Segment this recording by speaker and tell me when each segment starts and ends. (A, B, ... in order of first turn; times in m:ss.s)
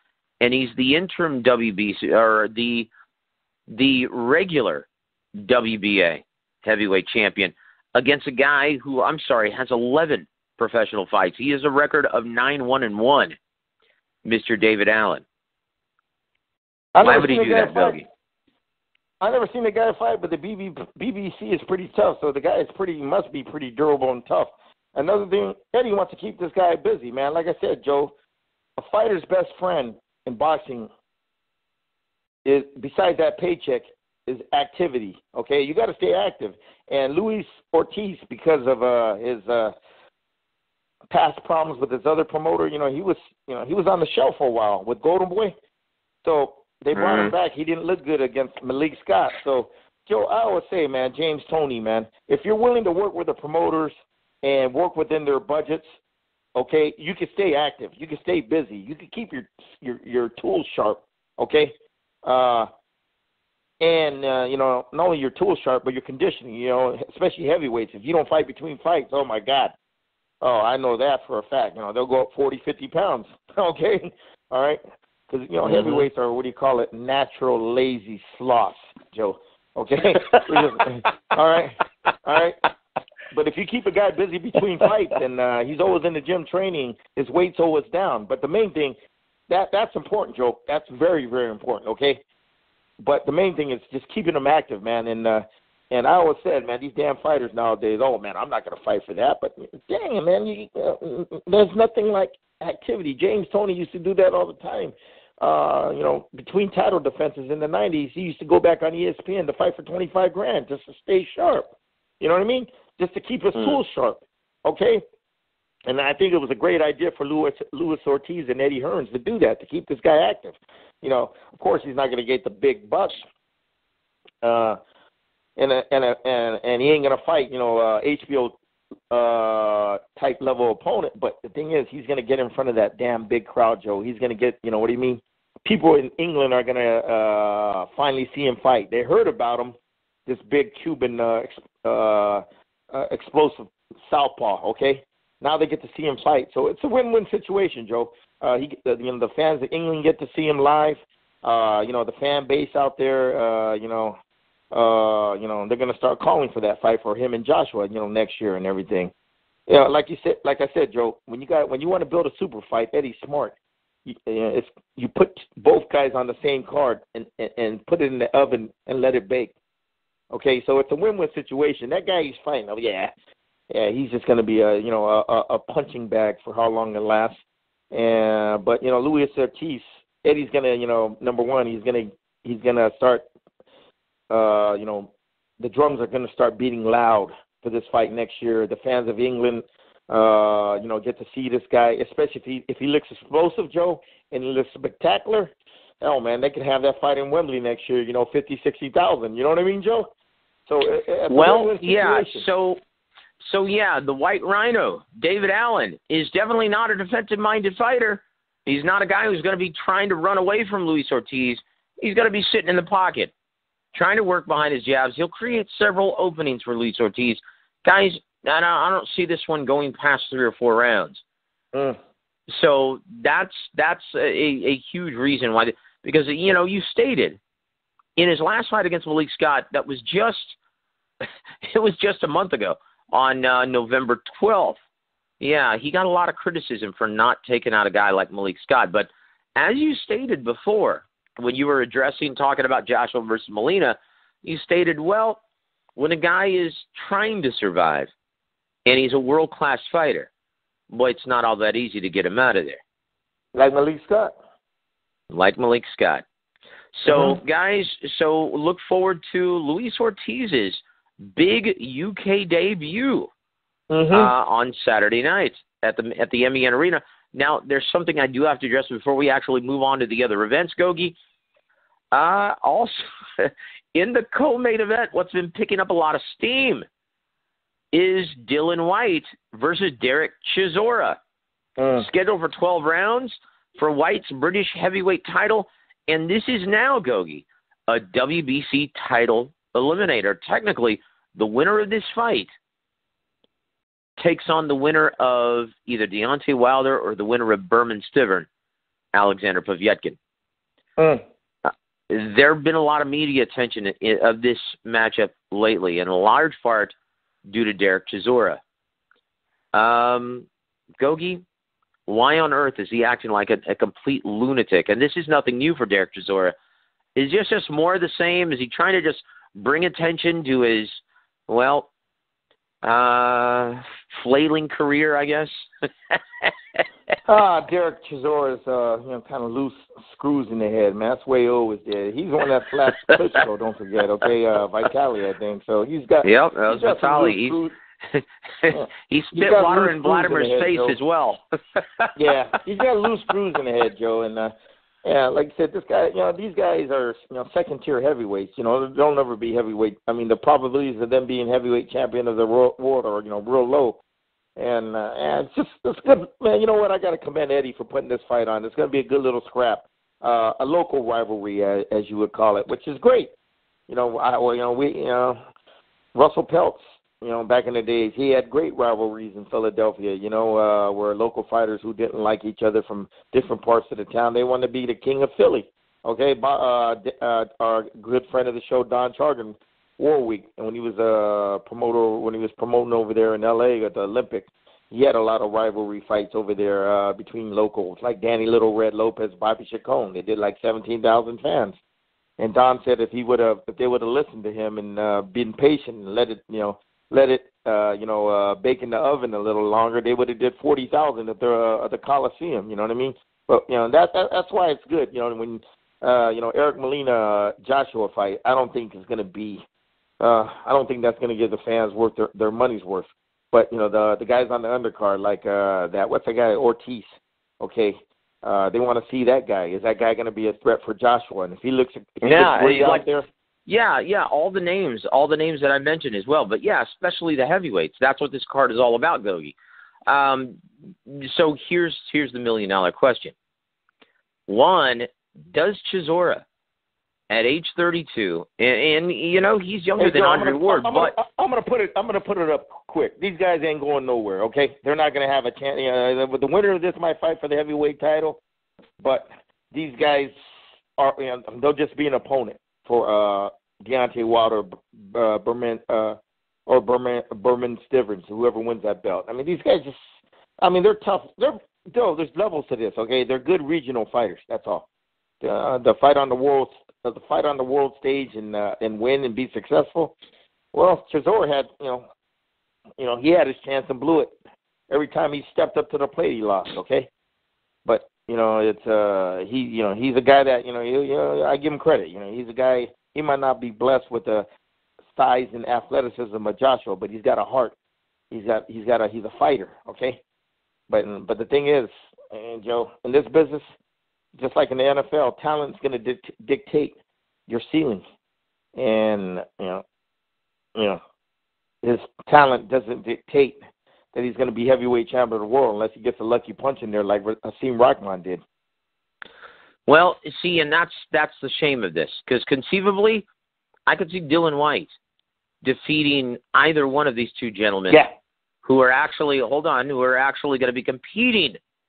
0:00.4-0:02.9 A
0:03.7-0:13.4 A
0:14.2-0:15.2 A
0:16.9-0:18.0 B
0:17.0-0:18.0 A
0:19.2-0:28.1 B
0:28.8-0:30.9 B
0:32.4-0:39.7 B
0:41.1-0:45.5 B
0:46.2-0:55.9 B
0:46.9-0:47.3 A
0:56.6-1:02.7 B
1:03.8-1:09.7 B
1:10.4-1:22.6 B
1:15.6-1:16.0 A
1:23.3-1:29.0 B
1:29.5-1:32.2 B
1:33.0-1:55.0 B
1:55.9-2:03.2 B
2:04.4-2:04.8 B
2:05.6-2:08.6 B
2:09.1-2:19.8 B
2:20.3-2:34.2 B
2:34.7-2:39.1 B
2:39.7-2:43.5 B
2:44.0-2:49.5 B
2:50.3-2:53.1 B
2:53.7-2:57.4 B
2:57.9-3:03.2 B
3:04.3-3:20.1 B
3:20.7-3:22.4 B
3:21.3-3:22.8 A
3:23.4-3:33.3 A
3:33.9-3:41.2 A
3:41.7-3:42.0 B
3:42.5-3:47.4 A
3:48.2-3:50.6 A
3:51.6-3:54.8 A
3:55.4-4:05.4 A
4:06.0-4:08.1 A
4:08.8-4:10.3 A
4:10.9-4:12.8 A
4:13.5-4:14.3 B
4:15.3-4:16.2 A
4:16.9-4:23.3 A
4:17.1-4:17.4 B
4:23.9-4:24.3 B
4:24.1-4:31.2 A
4:32.1-4:36.8 A
4:37.9-4:41.2 A
4:41.8-4:42.0 B
4:42.0-4:52.5 A
4:54.2-4:58.5 A
4:59.1-5:00.2 A
5:01.0-5:01.2 B
5:01.6-5:08.6 A
5:09.7-5:10.5 A
5:11.0-5:11.4 A
5:12.1-5:16.6 A
5:17.2-5:21.0 A
5:21.5-5:21.9 A
5:22.8-5:26.8 A
5:27.2-5:37.7 B
5:36.2-5:42.1 A
5:38.7-5:41.0 B
5:42.2-5:44.5 B
5:45.0-5:54.0 B
5:54.6-6:03.3 B
6:03.9-6:05.4 B
6:06.1-6:31.8 B
6:32.4-6:49.6 B
6:50.2-7:03.2 B
7:02.2-7:03.0 A
7:03.7-7:09.5 A
7:10.1-7:13.3 A
7:14.5-7:16.4 A
7:17.3-7:21.2 A
7:20.0-7:28.4 B
7:29.0-7:30.3 B
7:31.0-7:40.0 B
7:40.6-7:44.9 B
7:45.4-7:50.1 B
7:50.7-7:52.1 B
7:53.0-7:54.3 B
7:54.9-7:57.1 B
7:57.8-8:04.5 B
8:05.1-8:07.7 B
8:08.3-8:10.2 B
8:10.9-8:13.7 B
8:14.4-8:17.0 B
8:17.5-8:18.0 B
8:18.7-8:19.8 B
8:20.7-8:21.0 B
8:21.8-8:23.6 B
8:24.1-8:28.4 B
8:29.9-8:33.3 A
8:33.9-8:34.9 A
8:35.6-8:38.0 A
8:38.6-8:41.6 A